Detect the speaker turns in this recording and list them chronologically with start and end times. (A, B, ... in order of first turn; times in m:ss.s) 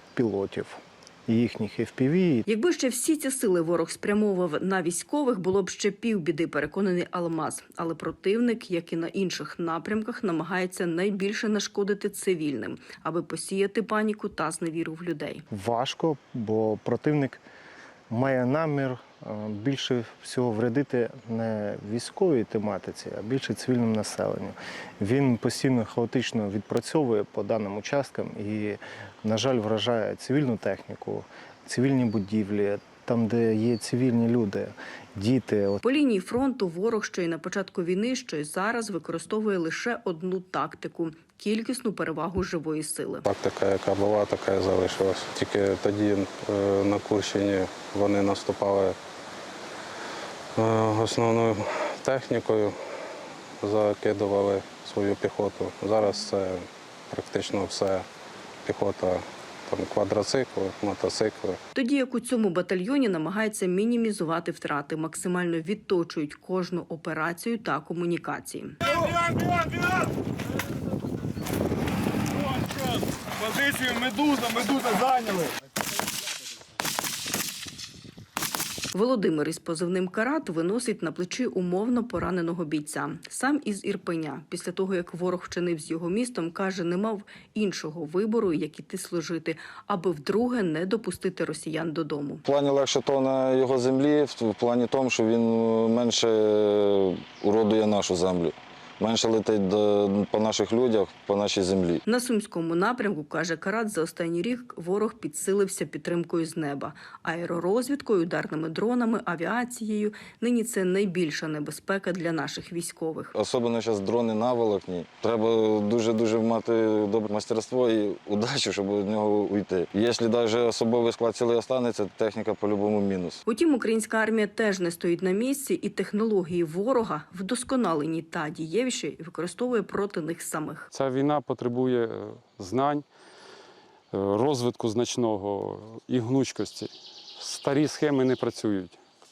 0:00.2-0:02.4 A
0:02.5-0:15.4 B
0:15.5-0:17.4 A
0:18.1-0:35.8 A
0:35.8-0:43.2 B
0:43.2-0:49.0 C
0:50.6-0:52.8 C
0:53.6-0:58.1 C
0:58.6-1:01.6 C
1:01.8-1:08.8 B
1:18.9-1:32.4 B
1:32.5-1:42.0 D
1:42.0-1:53.4 B
1:53.4-2:03.4 D
2:03.5-2:10.9 B
2:10.9-2:13.1 E
2:14.1-2:19.0 E